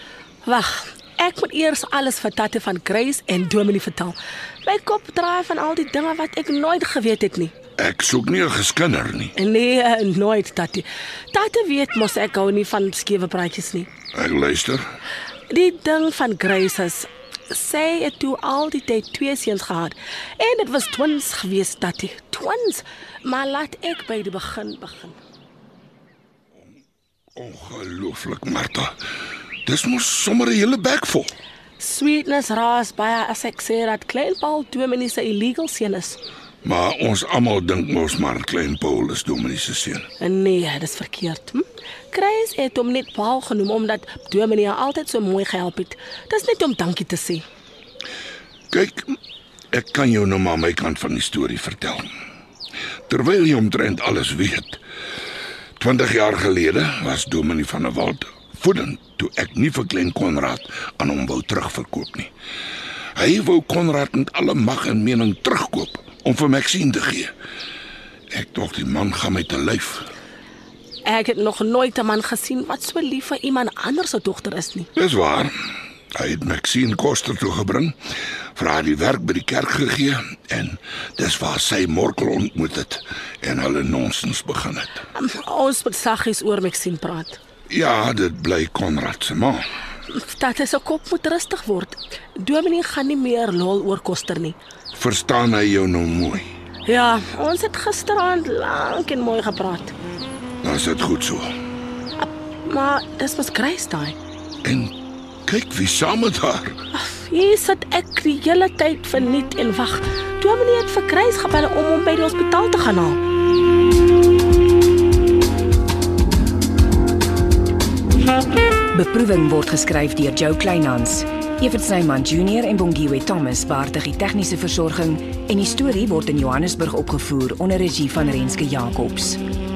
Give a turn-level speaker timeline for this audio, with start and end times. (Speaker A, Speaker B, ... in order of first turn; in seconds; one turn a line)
Speaker A: 0.4-7.5
Speaker B: 7.8-9.3
Speaker A: 9.3-13.9
Speaker B: 14.1-14.8
Speaker A: 15.5-25.2
Speaker B: 27.4-28.9
Speaker B: 29.6-31.3
Speaker A: 31.8-36.2
Speaker B: 36.6-40.1
Speaker A: 40.2-47.4
Speaker B: 48.7-49.1
Speaker B: 49.7-52.1
Speaker B: 53.1-54.8
Speaker B: 55.8-62.3
Speaker B: 63.1-67.3
Speaker B: 68.3-70.1
Speaker A: 71.0-74.9
Speaker B: 74.9-75.5
Speaker B: 76.1-78.0
Speaker B: 78.5-85.0
Speaker A: 85.1-87.4
Speaker B: 87.7-89.6
Speaker A: 90.1-94.5
Speaker B: 94.9-96.5
Speaker A: 96.8-99.9
Speaker B: 100.6-101.5
Speaker A: 102.2-104.2
Speaker B: 104.6-104.9
Speaker B: 105.5-106.8
Speaker A: 106.9-113.2
Speaker C: 118.9-129.4